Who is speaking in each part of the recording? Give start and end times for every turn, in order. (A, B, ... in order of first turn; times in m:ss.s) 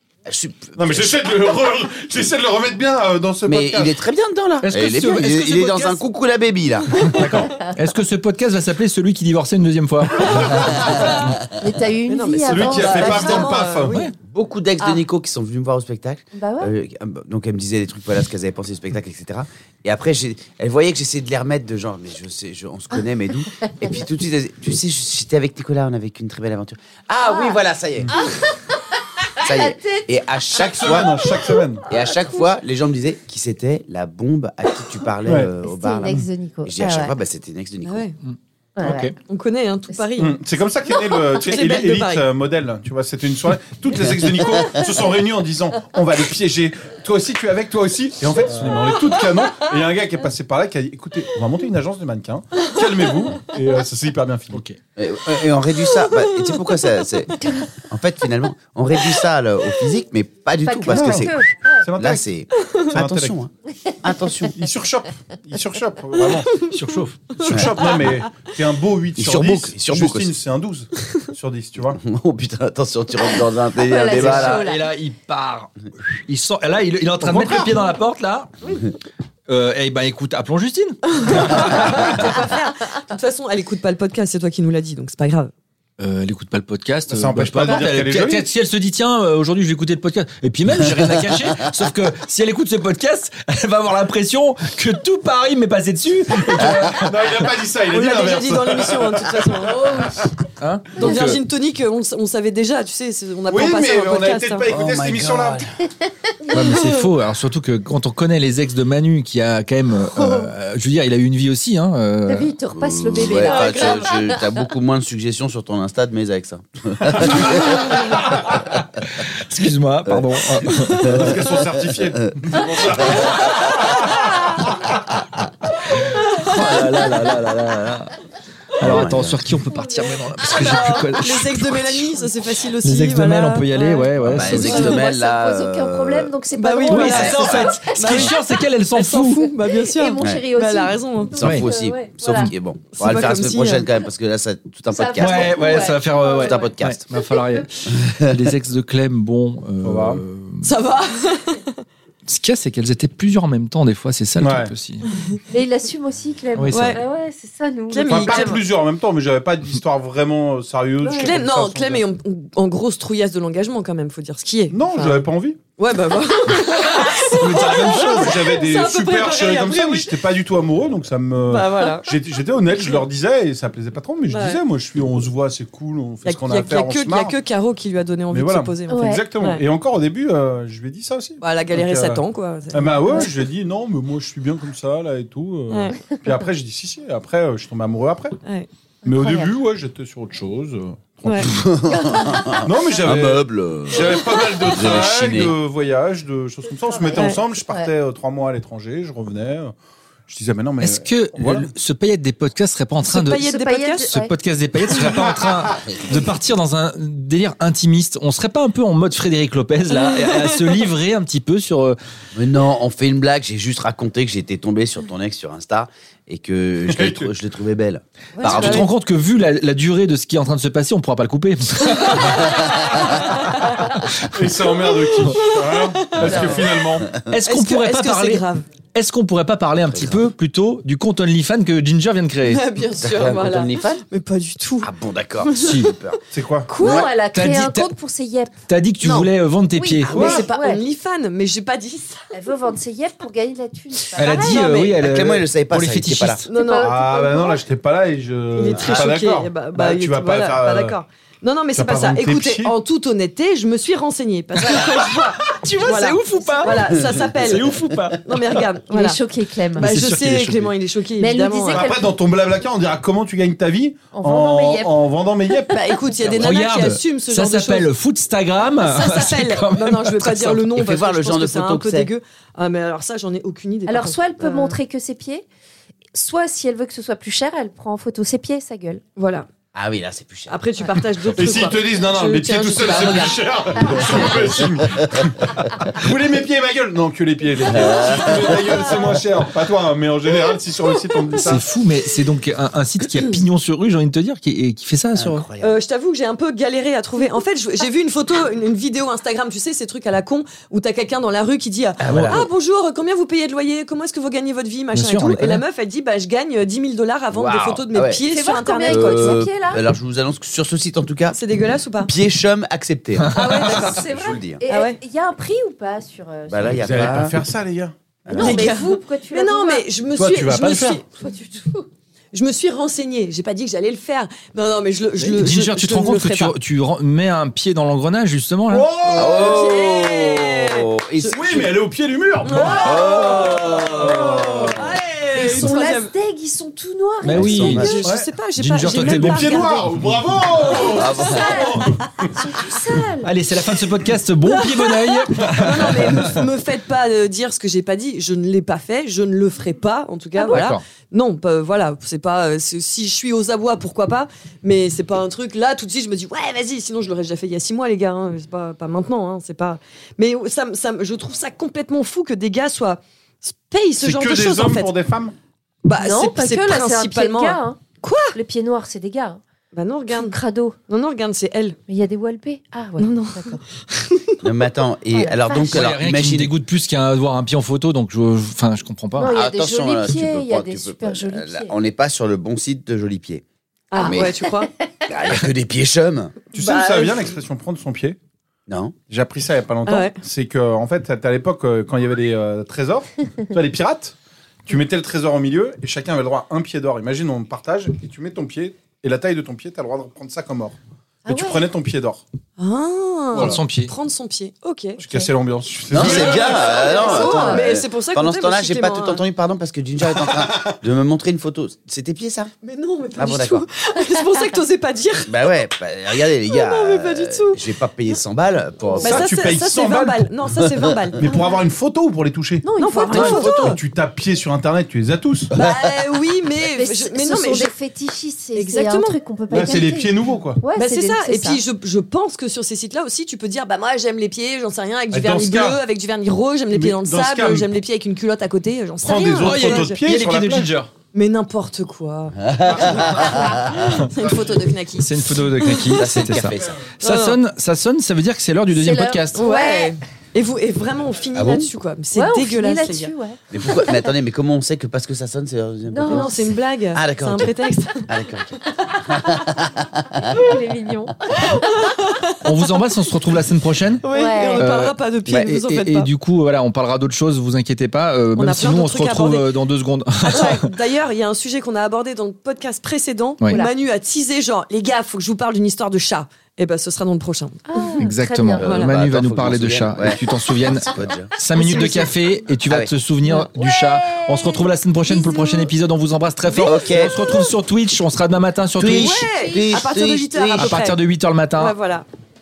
0:00.2-0:01.3 A
0:00.8-0:04.0 B
0:03.5-0:07.4 A
0:04.6-0:06.0 C
0:07.0-0:10.8 C
0:07.2-0:07.5 B
0:10.5-0:10.8 A
0:11.6-0:13.6 D
0:12.1-0:14.1 E
0:12.4-0:14.0 B
0:14.2-0:28.1 A
0:16.3-0:16.7 D
0:27.2-0:27.6 D
0:28.1-0:28.8 D
0:29.4-0:32.4 D
0:29.4-0:38.1 A
0:30.8-0:31.9 B
0:35.2-0:35.5 B
0:35.6-0:37.1 D
0:37.9-0:38.2 E
0:38.2-0:39.1 C
0:38.8-0:39.1 D
0:39.3-0:40.4 E
0:40.2-0:54.6 B
0:41.1-0:42.2 E
0:49.2-0:49.7 E
0:52.6-0:53.3 E
0:54.5-0:54.8 C
0:55.0-1:01.4 A
0:55.8-0:57.5 E
1:00.6-1:01.8 D
1:00.9-1:01.3 B
1:01.8-1:02.2 B
1:01.9-1:03.5 A
1:02.9-1:03.4 B
1:04.0-1:04.6 A
1:04.5-1:06.7 B
1:06.7-1:07.3 C
1:07.4-1:08.2 E
1:07.4-1:12.0 B
1:07.5-1:08.0 A
1:09.2-1:10.3 A
1:12.0-1:14.7 A
1:13.8-1:14.9 D
1:14.1-1:18.5 C
1:17.2-1:17.8 B
1:19.5-1:22.3 C
1:21.2-1:25.5 E
1:26.0-1:37.5 C
1:27.1-1:28.5 B
1:36.6-1:40.3 B
1:37.9-1:39.8 E
1:40.6-1:41.4 C
1:41.0-1:44.7 E
1:43.5-1:45.6 B
1:44.7-1:45.6 A
1:46.5-1:52.6 C
1:46.6-1:46.8 E
1:50.2-1:50.5 E
1:52.2-1:54.4 D
1:52.7-1:58.6 A
1:53.3-1:54.1 E
1:59.4-2:01.5 C
2:00.1-2:03.4 A
2:01.0-2:04.3 B
2:06.0-2:08.1 C
2:06.1-2:06.5 E
2:08.8-2:12.2 C
2:08.8-2:09.5 A
2:10.5-2:14.0 E
2:12.8-2:15.1 C
2:13.7-2:18.3 D
2:14.2-2:16.4 A
2:16.6-2:18.4 E
2:16.9-2:19.5 C
2:17.1-2:17.7 A
2:18.9-2:21.3 E
2:19.7-2:22.5 D
2:20.2-2:20.5 A
2:21.3-2:27.0 A
2:21.4-2:21.7 C
2:22.9-2:23.9 E
2:24.9-2:27.6 D
2:25.2-2:30.7 C
2:28.0-2:28.4 A
2:29.8-2:30.2 B
2:30.6-2:31.8 E
2:32.2-2:35.0 C
2:34.4-2:34.7 B
2:35.5-2:38.6 D
2:36.6-2:37.0 C
2:36.7-2:37.0 E
2:37.9-2:38.6 E
2:38.0-2:42.1 B
2:41.0-2:45.2 E
2:44.7-2:45.6 B
2:45.8-2:50.2 E
2:46.5-2:48.5 C
2:47.4-2:57.3 B
2:51.5-2:52.2 E
2:52.7-2:53.0 E
2:54.3-2:54.6 E
2:56.2-2:59.6 E
2:58.3-3:08.4 B
2:58.9-2:59.2 D
3:01.4-3:03.3 E
3:05.7-3:06.0 E
3:09.0-3:09.5 D
3:09.0-3:11.6 B
3:11.4-3:15.5 A
3:12.0-3:12.4 E
3:12.6-3:19.7 B
3:16.9-3:17.9 D
3:20.3-3:21.7 B
3:20.8-3:23.4 C
3:23.0-3:24.1 E
3:23.4-3:24.3 D
3:24.1-3:32.0 C
3:30.0-3:30.4 E
3:32.3-3:38.9 A
3:36.9-3:37.3 B
3:38.4-3:38.9 E
3:38.4-3:42.6 C
3:42.0-3:44.0 E
3:44.3-3:47.1 B
3:45.1-3:46.7 E
3:47.3-3:52.6 C
3:47.4-3:48.6 E
3:49.9-3:50.2 A
3:52.4-3:54.9 E
3:53.0-3:54.0 A
3:54.8-3:56.2 A
3:55.4-3:55.9 E
3:55.6-3:56.0 C
3:56.3-3:56.7 B
3:56.7-3:57.0 E
3:56.7-3:58.5 D
3:56.8-3:57.1 A
3:57.3-3:57.9 C
3:58.7-4:00.4 C
3:59.0-3:59.3 E
3:59.8-4:00.8 D
4:00.0-4:02.3 E
4:02.3-4:04.9 D
4:04.1-4:06.5 C
4:04.2-4:04.9 E
4:04.8-4:06.4 A
4:06.5-4:07.6 E
4:06.5-4:07.5 D
4:06.8-4:11.0 B
4:08.5-4:17.7 E
4:08.7-4:09.1 A
4:11.7-4:12.7 B
4:14.6-4:18.6 C
4:16.3-4:17.1 D
4:18.2-4:19.2 E
4:18.9-4:19.9 D
4:19.8-4:20.7 C
4:19.8-4:21.9 E
4:21.2-4:22.2 D
4:21.6-4:25.8 B
4:24.1-4:25.0 D
4:25.7-4:27.9 E
4:26.3-4:30.7 C
4:28.8-4:34.8 E
4:30.7-4:32.1 A
4:33.9-4:35.4 D
4:36.1-4:39.0 D
4:39.2-4:39.5 E
4:39.7-4:40.6 A
4:40.5-4:44.4 E
4:41.3-4:51.6 B
4:44.0-4:45.3 A
4:47.8-4:48.8 A
4:47.9-4:48.8 E
4:51.4-4:55.4 C
4:55.1-4:55.8 A
4:55.6-5:09.4 E
5:02.0-5:02.5 A
5:02.1-5:02.4 C
5:04.9-5:05.6 C
5:07.3-5:08.2 A
5:08.2-5:09.8 D
5:08.9-5:11.4 A
5:11.3-5:12.1 E
5:12.0-5:14.6 A
5:13.2-5:13.6 C
5:13.3-5:14.0 E
5:13.3-5:17.1 D
5:14.7-5:15.0 E
5:16.5-5:17.4 A
5:16.8-5:17.9 B
5:18.2-5:18.8 A
5:18.3-5:19.9 D
5:18.3-5:21.0 E
5:20.1-5:21.0 B
5:21.1-5:21.9 D
5:22.3-5:26.6 E
5:25.2-5:28.9 C
5:28.7-5:29.5 B
5:29.0-5:31.4 E
5:29.1-5:31.7 A
5:31.3-5:34.8 B
5:32.4-5:36.1 E
5:32.7-5:34.9 A
5:35.3-5:38.0 D
5:37.2-5:37.9 C
5:37.2-5:38.0 A
5:37.8-5:39.9 E
5:38.6-5:40.1 C
5:38.9-5:42.3 B
5:40.6-5:42.3 E
5:40.8-5:41.8 A
5:40.9-5:43.3 D
5:43.2-5:46.4 C
5:44.5-5:45.2 D
5:45.4-6:04.9 E
5:50.4-5:50.6 D
5:50.5-5:50.8 C
6:04.0-6:05.3 B
6:05.8-6:08.4 E
6:05.9-6:07.8 D
6:08.3-6:09.4 D
6:09.7-6:11.8 E
6:10.1-6:10.8 D
6:11.9-6:13.6 D
6:13.0-6:14.4 E
6:14.4-6:16.5 A
6:15.1-6:15.8 D
6:15.7-6:19.3 C
6:19.2-6:21.7 D
6:19.2-6:23.4 A
6:23.9-6:24.7 E
6:23.9-6:24.3 D
6:24.0-6:24.3 A
6:25.1-6:26.4 A
6:26.5-6:28.2 B
6:26.6-6:27.3 E
6:28.7-6:29.0 A
6:29.1-6:34.1 B
6:29.9-6:30.2 E
6:34.7-6:42.2 B
6:41.2-6:41.6 D
6:42.6-6:45.0 E
6:43.3-6:43.9 C
6:45.0-6:47.2 B
6:45.0-6:45.3 D
6:45.9-6:52.5 A
6:46.0-6:49.2 E
6:46.9-6:47.7 D
6:50.2-6:50.8 B
6:52.6-6:55.5 E
6:53.2-6:53.6 A
6:55.2-6:59.3 A
6:56.4-6:57.6 E
6:59.0-7:01.3 E
6:59.0-7:00.3 B
7:00.6-7:01.1 A
7:01.2-7:05.5 B
7:02.6-7:03.6 D
7:02.8-7:03.8 E
7:05.5-7:06.0 A
7:05.6-7:07.7 E
7:06.7-7:11.6 D
7:08.5-7:09.8 E
7:09.5-7:10.6 B
7:10.7-7:20.0 E
7:15.1-7:15.8 B
7:16.7-7:17.8 B
7:19.0-7:20.7 B
7:19.4-7:20.9 C
7:21.1-7:26.0 E
7:22.4-7:24.0 A
7:23.2-7:23.7 D
7:25.0-7:29.4 C
7:25.9-7:26.8 A
7:27.0-7:27.4 E
7:28.7-7:30.0 D
7:29.4-7:33.1 E
7:31.3-7:31.7 A
7:32.1-7:34.0 D
7:33.5-7:36.3 A
7:35.9-7:36.5 D
7:36.1-7:38.1 E
7:36.9-7:40.4 A
7:40.2-7:42.0 D
7:41.4-7:42.5 E
7:42.4-7:44.0 C
7:44.0-7:46.1 E
7:44.1-7:44.6 D
7:44.6-7:50.7 C
7:48.3-7:49.5 E
7:50.3-7:58.0 E
7:57.7-7:58.6 D
7:58.0-8:09.2 C
7:58.6-8:00.2 A
7:58.6-7:58.9 E
8:00.8-8:01.3 A
8:01.6-8:02.2 D
8:01.6-8:02.1 E
8:02.6-8:02.9 A
8:03.2-8:05.7 D
8:06.6-8:07.2 A
8:08.8-8:10.8 A
8:08.8-8:11.0 E
8:09.4-8:09.8 D
8:10.6-8:11.7 C
8:11.6-8:12.1 E